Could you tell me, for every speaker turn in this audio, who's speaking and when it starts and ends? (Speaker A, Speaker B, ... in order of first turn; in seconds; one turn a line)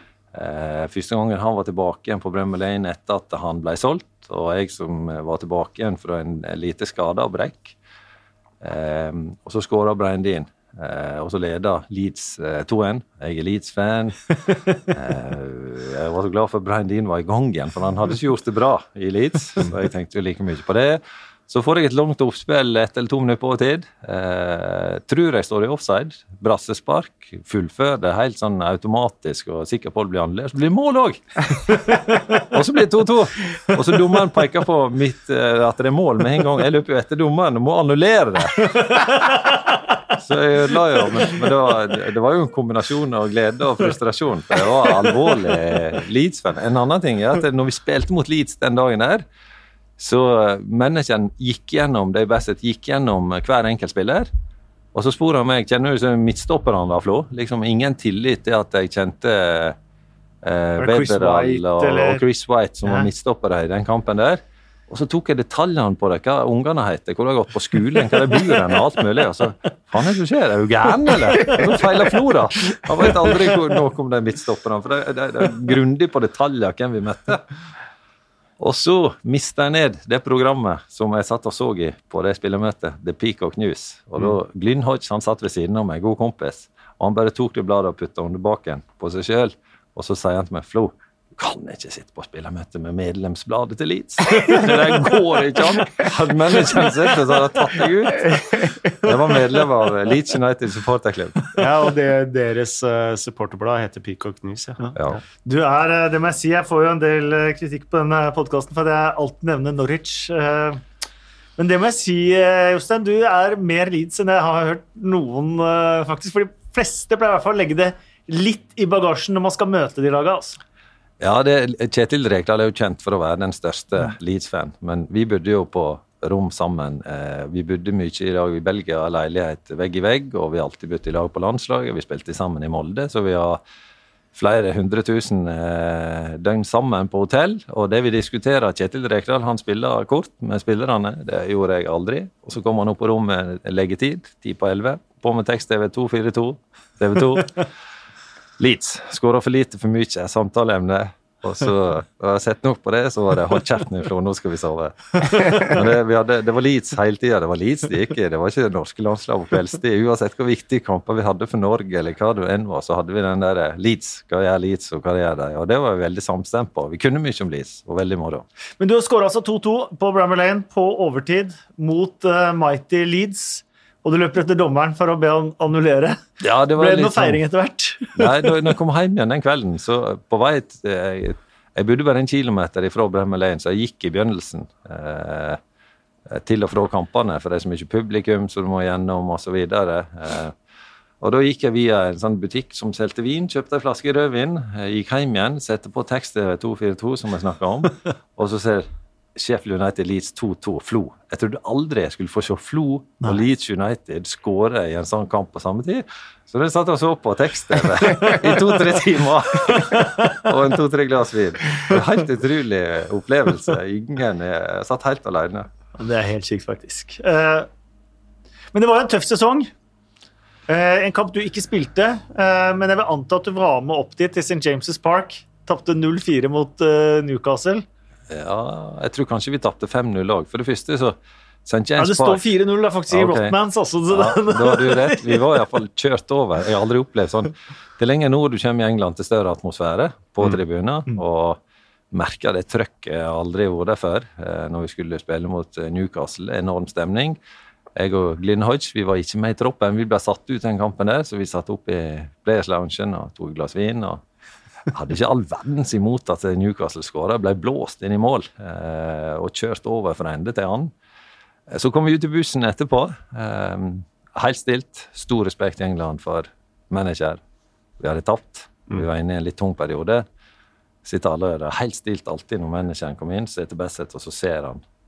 Speaker A: 0.3-7.8
Speaker A: 8.6-14.2
Speaker A: 14.9-31.9
Speaker B: 31.9-32.4
Speaker A: 32.4-39.0
Speaker B: 38.9-39.6
Speaker A: 40.1-49.2
Speaker A: 50.0-54.3
Speaker A: 54.9-59.8
Speaker A: 60.4-77.5
Speaker B: 60.8-62.2
Speaker A: 78.6-101.6
Speaker C: 101.6-104.8
Speaker B: 104.8-110.8
Speaker B: 111.6-120.6
Speaker A: 121.2-133.6
Speaker A: 134.3-147.7
Speaker A: 148.6-168.4
Speaker B: 168.8-176.2
Speaker A: 176.4-177.4
Speaker B: 176.8-178.7
Speaker A: 178.2-185.6
Speaker A: 186.3-190.6
Speaker A: 191.2-215.7
Speaker B: 209.8-210.4
Speaker B: 216.0-217.7
Speaker B: 218.7-219.7
Speaker B: 220.7-227.8
Speaker A: 228.3-232.4
Speaker B: 232.0-235.5
Speaker A: 233.1-233.6
Speaker A: 234.1-241.6
Speaker A: 242.1-247.4
Speaker A: 248.0-254.2
Speaker A: 254.9-260.9
Speaker A: 261.7-267.4
Speaker A: 268.0-270.2
Speaker A: 271.1-274.8